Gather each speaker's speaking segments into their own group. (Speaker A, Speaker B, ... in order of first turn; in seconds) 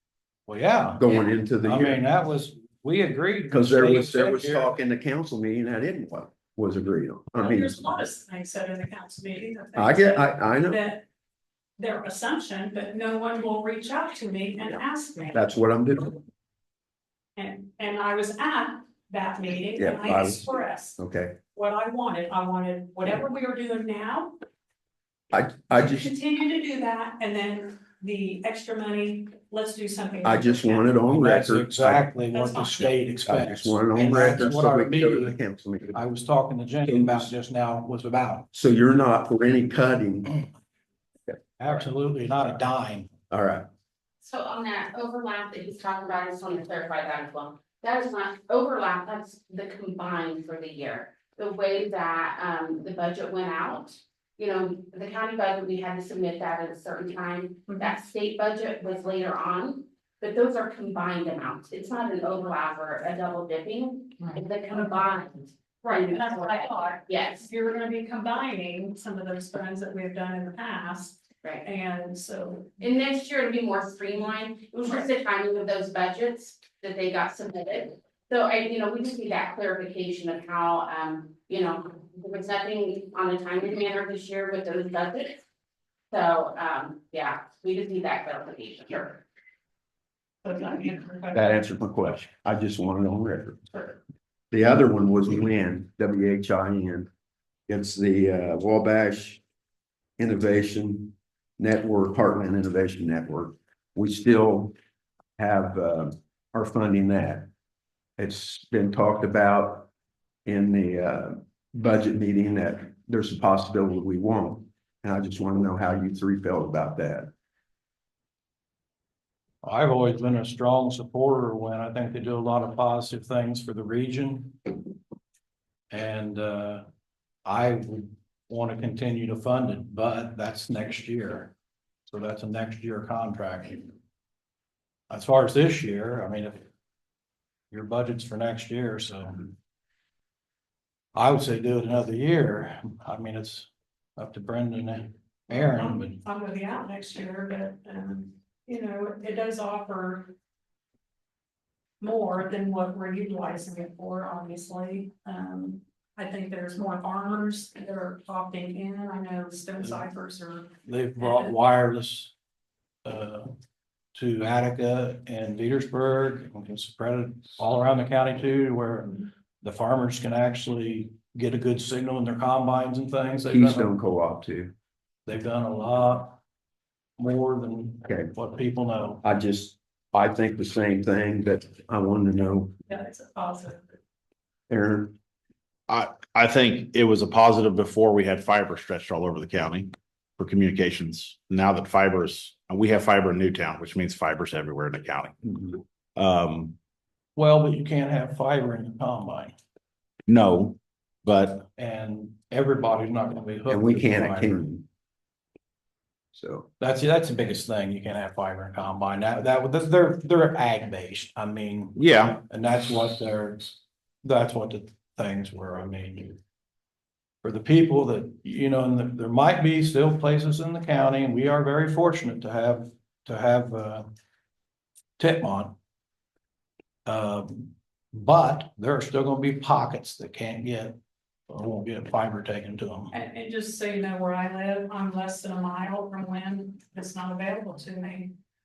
Speaker A: 0.5-1.0, 1.6-4.7, 31.1-35.4, 35.9-38.5, 41.6-43.1, 119.6-124.6, 125.9-126.8, 127.5-131.5, 132.1-133.9, 135.1-136.6, 137.7-139.6, 141.2-146.2, 160.8-162.3, 163.1-163.5, 164.2-173.9, 175.3-176.4, 177.2-179.2, 197.4-199.6, 201.8-204.6, 206.8-216.4, 217.4-224.1, 225.2-225.8, 227.1-231.0, 231.5-233.1
Speaker B: 1.0-2.0, 3.5-8.0, 9.8-10.8, 15.3-16.2, 19.8-21.4, 25.3-26.1, 30.2-32.1, 33.3-36.0, 36.9-37.3, 38.5-40.4, 41.3-41.8, 43.3-43.7, 91.3-93.6, 94.5-97.1, 97.7-99.4, 100.2-104.7, 105.4-107.5, 108.2-109.9, 110.5-117.3, 173.5-174.7, 179.2-182.7, 184.7-185.1, 203.7-204.8, 206.3-206.7
Speaker C: 7.4-11.1, 11.8-15.4, 17.4-21.0, 21.5-24.3, 25.8-30.9, 32.3-32.9, 64.3-65.0, 65.8-73.0, 90.4-91.5, 145.5-150.3, 152.0-161.5, 182.9-184.0, 233.1-238.3
Speaker D: 44.2-67.5, 72.8-85.4, 86.1-89.2
Speaker E: 185.9-196.8, 200.3-201.7, 212.0-212.4